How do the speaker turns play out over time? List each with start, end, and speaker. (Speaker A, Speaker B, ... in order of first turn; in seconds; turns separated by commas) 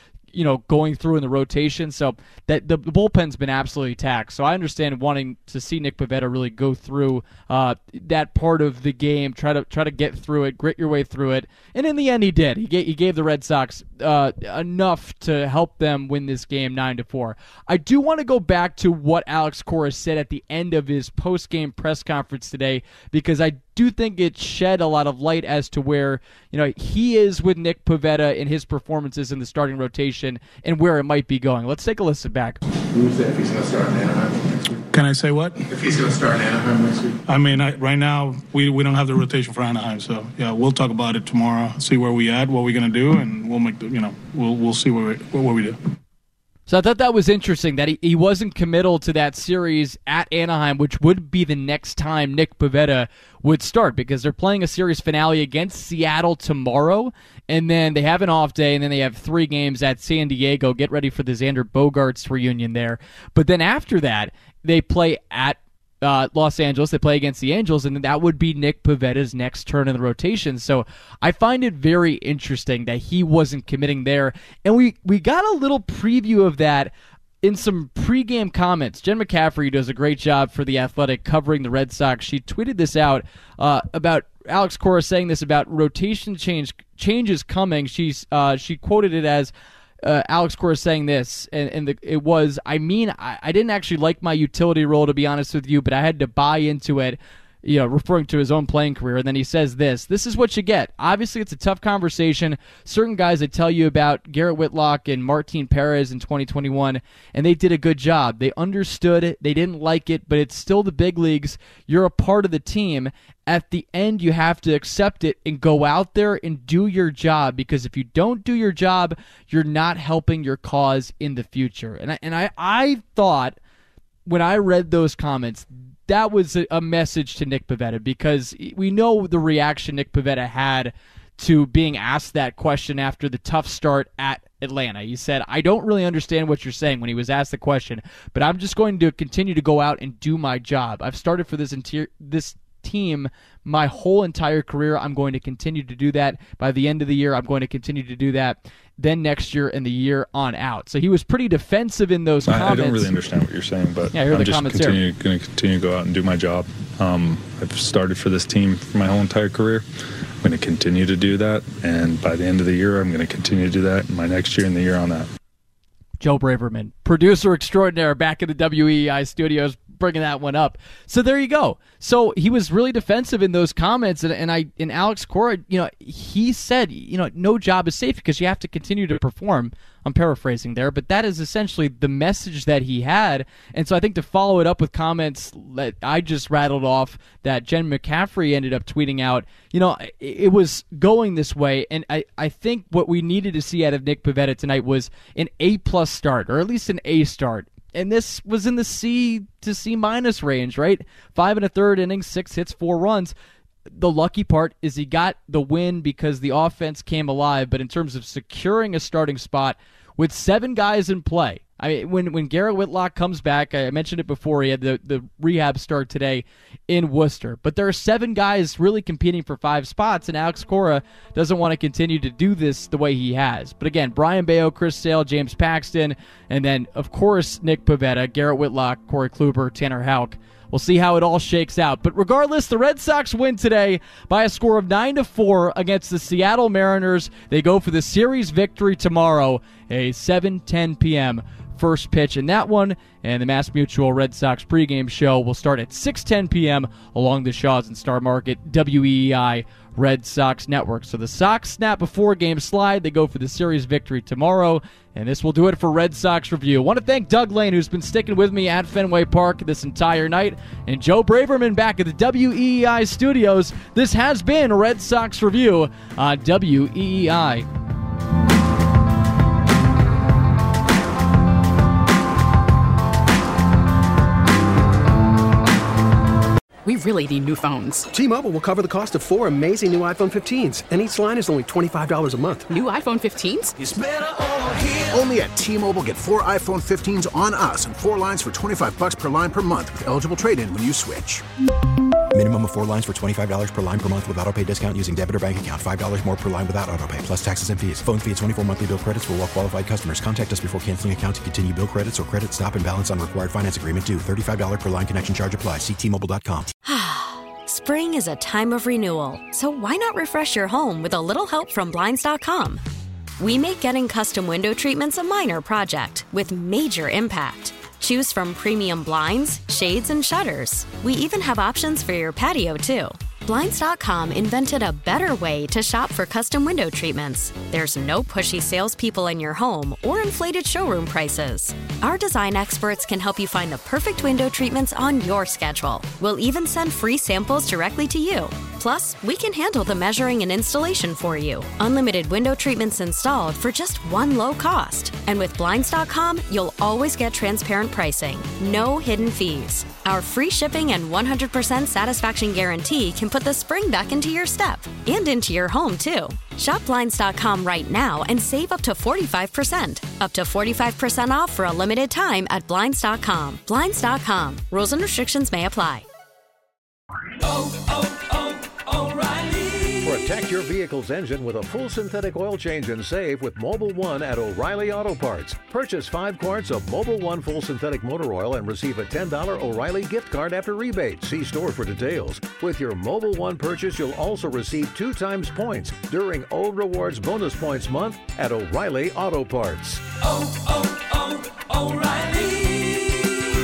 Speaker A: 0.3-32.6, Speaker B: 32.9-34.8, Speaker C: 34.9-35.6, Speaker B: 35.7-37.2, Speaker C: 37.3-45.8, Speaker A: 46.7-89.5, Speaker A: 90.0-123.5, Speaker A: 124.2-153.1, Speaker D: 152.5-159.8, Speaker A: 154.1-155.0, Speaker D: 160.4-165.3, Speaker A: 166.2-203.3, Speaker A: 203.9-267.7, Speaker E: 276.8-278.1, Speaker F: 278.1-282.7, Speaker E: 282.7-283.8, Speaker G: 283.8-291.4, Speaker H: 292.3-306.7, Speaker I: 306.8-312.8, Speaker I: 313.4-366.0, Speaker D: 367.5-369.7, Speaker J: 370.0-390.0, Speaker D: 390.4-393.1